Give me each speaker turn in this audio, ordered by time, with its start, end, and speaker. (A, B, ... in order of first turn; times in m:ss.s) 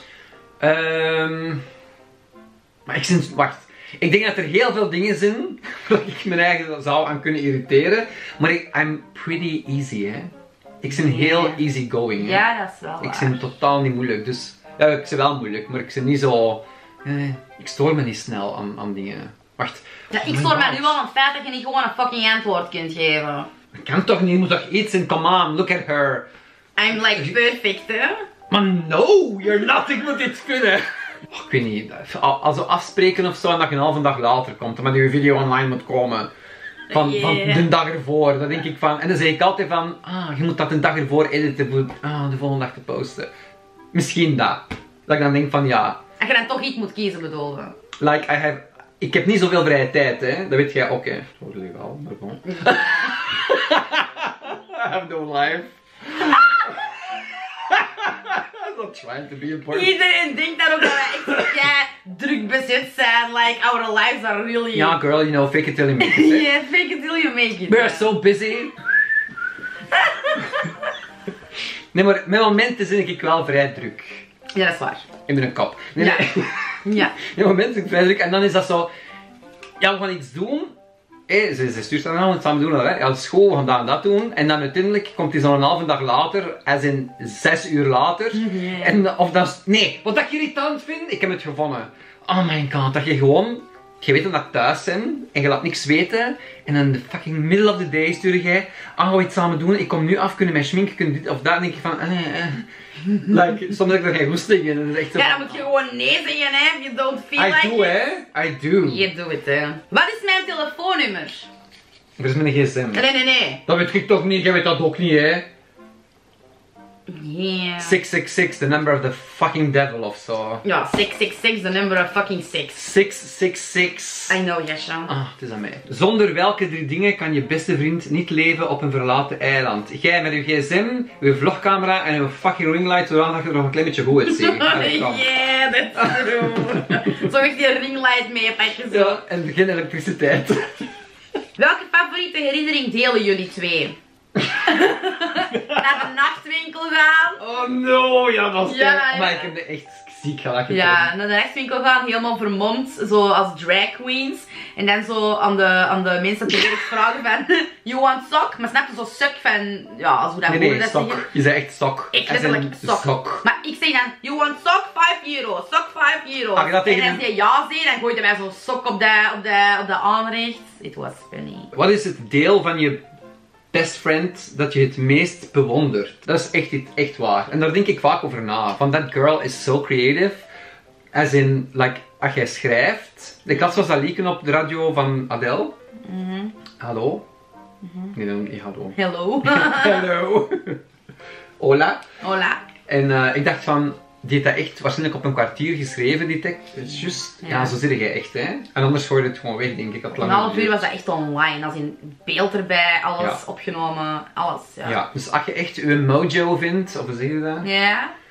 0:00.6-0:01.6 A
0:02.9-0:12.4 A
0:10.9-0:13.5 B
0:13.0-0:21.0 A
0:20.1-0:23.5 B
0:23.8-0:26.3 A
0:26.8-0:28.2 B
0:26.9-0:27.4 A
0:28.5-0:36.3 A
0:36.9-0:37.7 B
0:36.9-0:43.3 A
0:43.9-0:46.0 A
0:46.2-0:47.7 B
0:48.0-1:00.0 A
0:52.5-0:53.2 B
0:59.7-1:05.0 B
1:00.8-1:01.6 A
1:04.7-1:06.5 A
1:06.0-1:08.1 B
1:07.7-1:08.8 A
1:09.9-1:10.8 B
1:11.9-1:14.2 A
1:14.5-1:15.0 B
1:15.3-1:18.9 A
1:16.0-1:16.3 B
1:16.8-1:17.2 B
1:19.8-1:20.8 A
1:21.3-1:42.6 A
1:28.3-1:29.0 B
1:43.2-1:45.7 A
1:45.1-1:48.0 B
1:47.4-1:49.1 A
1:48.8-1:51.5 B
1:52.2-1:53.0 A
1:52.9-1:53.6 B
1:53.7-1:55.5 A
1:57.1-1:58.0 B
1:57.8-2:00.6 A
2:00.6-2:02.8 B
2:02.8-2:04.4 A
2:04.3-2:05.1 B
2:05.1-2:15.3 A
2:14.3-2:19.2 B
2:16.0-2:17.2 A
2:18.9-2:20.8 A
2:21.6-2:24.0 B
2:24.6-2:27.4 B
2:25.5-2:26.0 A
2:27.4-2:31.1 A
2:28.6-2:29.5 B
2:30.7-2:41.2 B
2:40.5-2:43.4 A
2:42.1-2:51.7 B
2:46.6-2:47.2 A
2:51.7-2:53.0 A
2:53.7-3:00.5 A
3:01.1-3:05.7 A
3:03.5-3:03.8 B
3:06.0-3:06.6 B
3:06.8-3:07.2 A
3:07.8-3:08.2 B
3:08.1-3:10.8 A
3:09.0-3:10.1 B
3:11.6-3:12.0 A
3:12.2-3:12.6 B
3:12.9-3:20.9 A
3:17.4-3:17.8 B
3:20.2-3:25.0 B
3:24.8-3:27.7 A
3:27.6-3:28.1 B